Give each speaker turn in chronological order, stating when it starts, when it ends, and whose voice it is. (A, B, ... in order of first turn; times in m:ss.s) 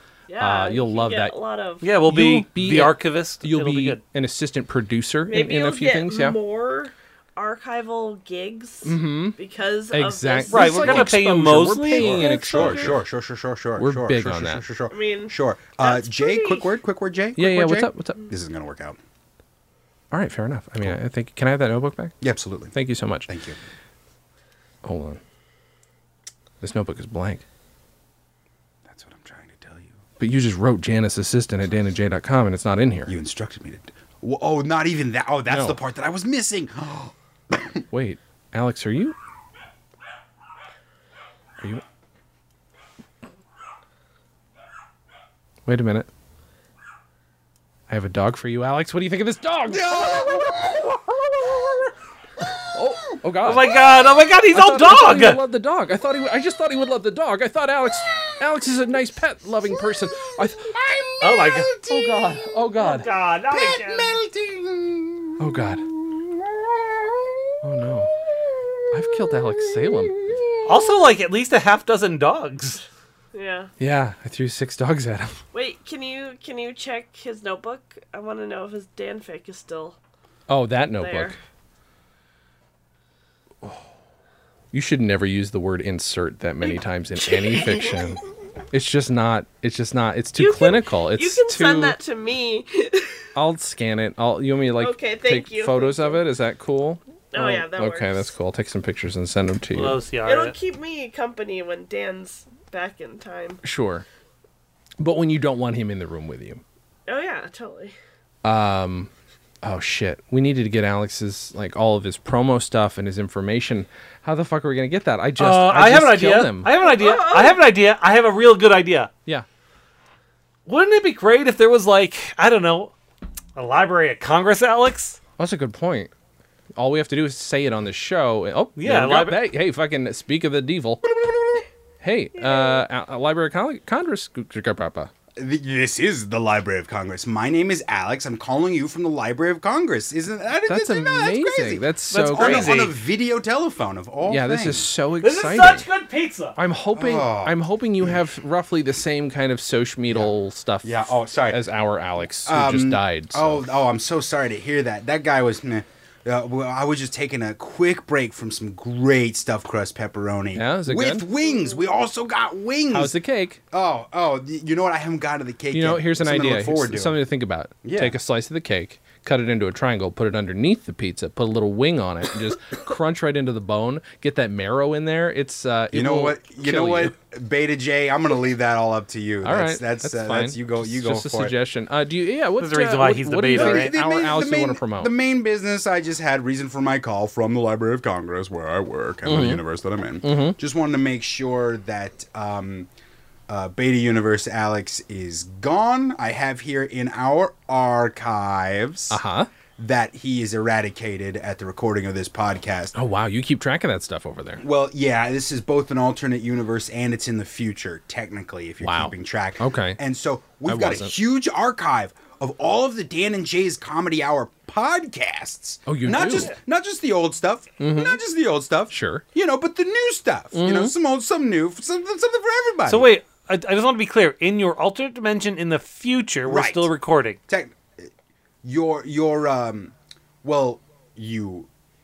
0:00.3-0:01.8 A
0:00.4-0:01.4 B
0:01.8-0:04.0 C
0:02.0-0:06.4 B
0:05.3-0:11.1 A
0:08.8-0:09.4 B
0:09.9-0:13.0 B
0:10.5-0:12.2 C
0:12.0-0:19.0 D
0:12.0-0:12.9 A
0:13.8-0:14.6 B
0:14.9-0:16.7 A
0:17.4-0:18.2 B
0:20.1-0:22.2 B
0:22.2-0:22.7 D
0:22.7-0:23.3 B
0:23.3-0:23.6 D
0:24.8-0:25.2 B
0:26.6-0:27.4 B
0:28.8-0:29.9 D
0:30.2-0:33.1 B
0:33.0-0:37.8 D
0:35.5-0:35.8 B
0:37.9-0:39.1 B
0:45.6-0:46.1 B
0:47.9-0:50.4 B
0:49.7-0:53.1 D
0:52.7-0:53.7 B
0:53.4-0:55.4 C
0:54.5-1:00.8 B
1:00.6-1:02.6 D
1:01.2-1:01.7 C
1:01.9-1:03.1 B
1:02.8-1:04.2 C
1:03.5-1:07.6 D
1:05.4-1:05.8 B
1:07.6-1:08.1 B
1:08.3-1:11.1 D
1:08.9-1:10.2 B
1:10.6-1:12.8 C
1:13.3-1:13.7 A
1:13.8-1:15.4 B
1:15.5-1:20.0 A
1:20.5-1:21.4 B
1:21.0-1:21.4 A
1:24.7-1:32.0 B
1:27.5-1:27.9 A
1:30.4-1:33.2 A
1:33.3-1:40.0 B
1:34.8-1:36.2 A
1:37.3-1:38.3 A
1:39.7-1:40.6 C
1:40.2-1:43.6 A
1:43.6-1:44.0 B
1:45.0-1:46.6 B
1:47.1-1:47.9 A
1:48.4-1:49.1 B
1:49.6-1:56.7 B
1:55.4-1:59.1 C
1:56.8-1:57.6 A
2:00.6-2:02.9 C
2:03.6-2:05.2 C
2:05.4-2:06.1 B
2:06.7-2:11.0 B
2:08.8-2:09.4 C
2:11.0-2:11.6 D
2:12.0-2:15.1 B
2:12.4-2:12.8 A
2:15.4-2:24.9 D
2:20.7-2:22.8 B
2:22.1-2:23.0 C
2:24.3-2:25.8 B
2:25.2-2:26.6 C
2:26.6-2:33.7 B
2:26.9-2:28.2 D
2:30.1-2:31.6 D
2:32.4-2:43.2 D
2:40.5-2:41.3 B
2:41.4-2:41.8 A
2:42.9-2:43.6 B
2:43.7-2:47.2 D
2:45.7-2:57.1 B
2:47.8-2:48.2 D
2:55.9-3:01.5 D
2:59.4-3:05.1 B
3:02.6-3:03.9 C
3:03.5-3:12.9 D
3:09.2-3:09.6 B
3:10.2-3:10.6 B
3:13.5-3:19.2 D
3:19.1-3:19.5 B
3:19.8-3:22.9 D
3:22.9-3:24.6 B
3:24.6-3:43.1 D
3:28.8-3:30.0 B
3:30.7-3:31.1 B
3:35.8-3:36.5 B
3:37.8-3:38.2 B
3:38.9-3:39.2 B
3:40.5-3:40.9 B
3:42.9-3:47.4 C
3:46.4-3:46.9 D
3:47.5-3:48.1 D
3:48.6-3:51.7 D